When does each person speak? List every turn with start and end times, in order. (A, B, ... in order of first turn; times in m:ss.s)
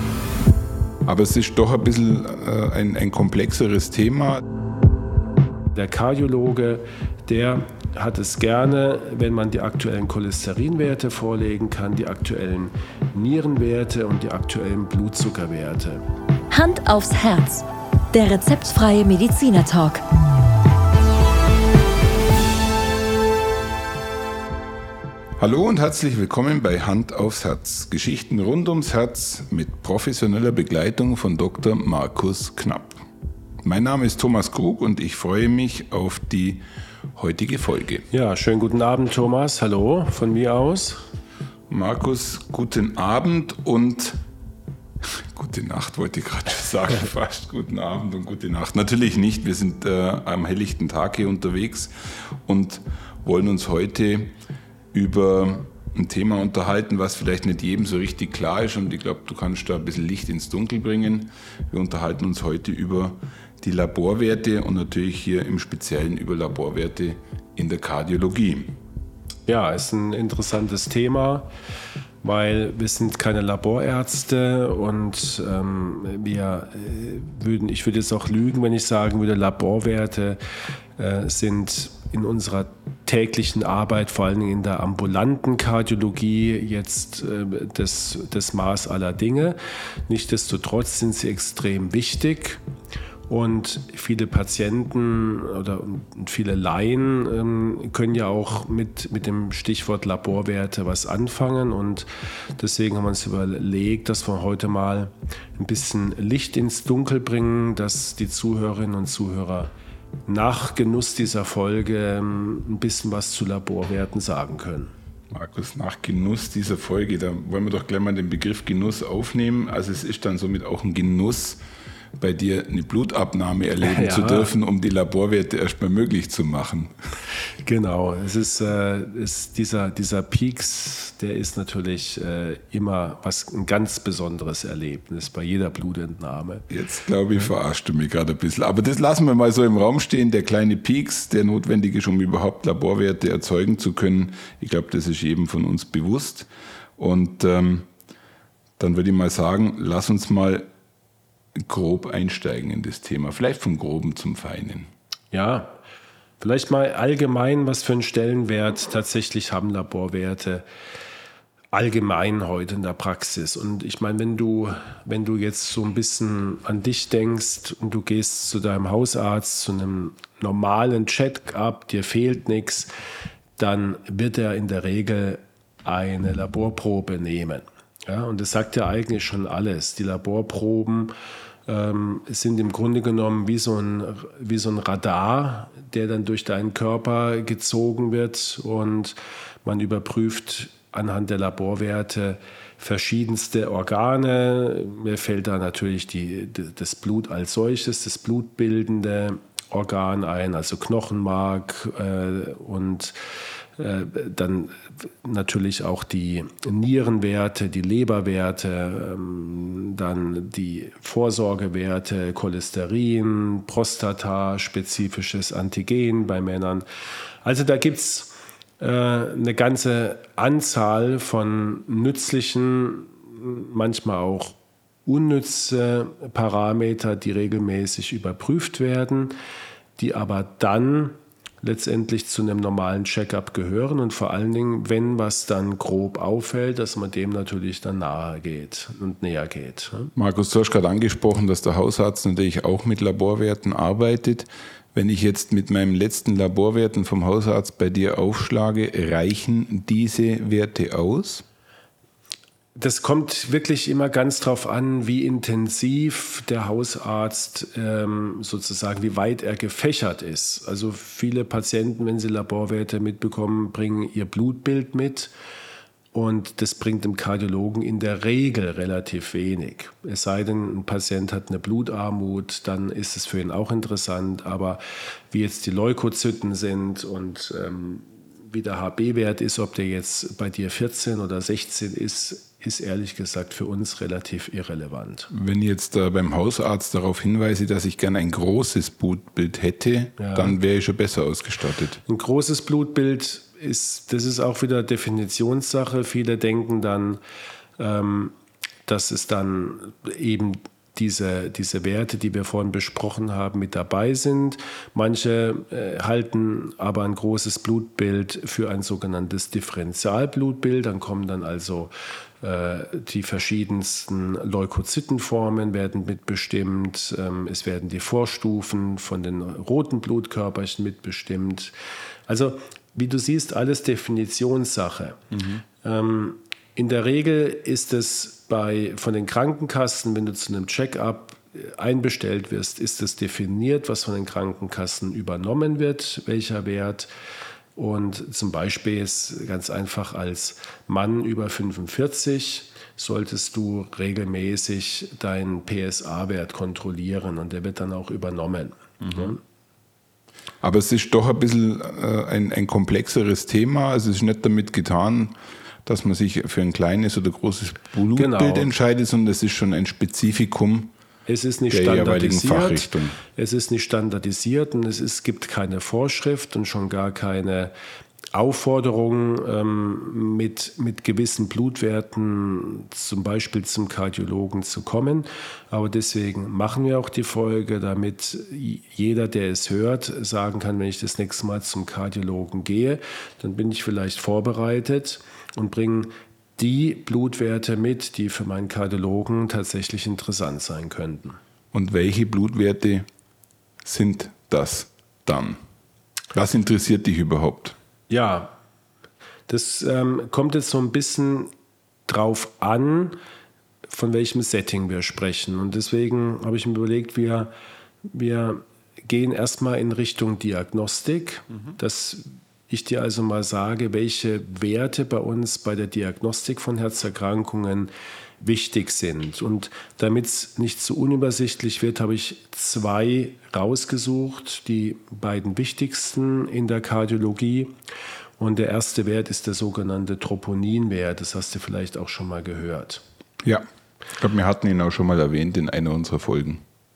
0:01.1-0:04.4 A
0:05.8-0:16.0 B
0:16.5-0:20.0 C
0:25.4-0:33.0 A
0:33.6-0:36.6 A
0:37.2-0:38.1 A
0:38.1-0:41.0 B
0:41.7-0:44.2 A
0:45.0-0:51.9 A
0:52.4-0:54.3 A
0:54.9-1:08.8 A
1:09.5-1:11.5 B
1:12.2-1:20.4 B
1:21.0-1:32.6 B
1:33.3-1:49.7 B
1:50.3-1:54.9 B
1:55.3-2:01.6 A
2:02.2-2:06.9 A
2:03.8-2:04.5 B
2:07.6-2:16.6 B
2:16.7-2:27.9 A
2:28.8-2:30.7 A
2:31.6-2:34.9 A
2:35.3-2:35.8 B
2:36.4-2:40.6 B
2:41.7-2:52.9 B
2:53.6-3:01.1 B
3:01.7-3:23.2 B
3:23.8-3:36.8 B
3:37.4-3:49.4 B
3:50.0-4:00.1 B
4:00.2-4:11.4 A
4:12.8-4:25.3 B
4:26.1-4:45.3 B
4:45.3-4:52.0 A
4:50.2-4:50.6 B
4:52.0-4:57.2 B
4:57.8-4:58.4 B
4:58.9-5:21.7 B
5:22.3-5:37.1 B
5:37.8-5:49.4 B
5:50.6-6:00.9 A
5:58.1-5:58.7 B
6:01.3-6:07.7 B
6:01.7-6:03.2 A
6:08.3-6:31.4 B
6:31.7-6:33.1 A
6:33.8-6:35.6 A
6:36.3-6:37.8 A
6:38.1-6:38.5 B
6:39.5-6:41.5 B
6:42.1-6:43.2 B
6:43.9-6:47.5 B
6:48.0-7:07.7 B
7:08.4-7:13.0 B
7:14.2-7:16.6 A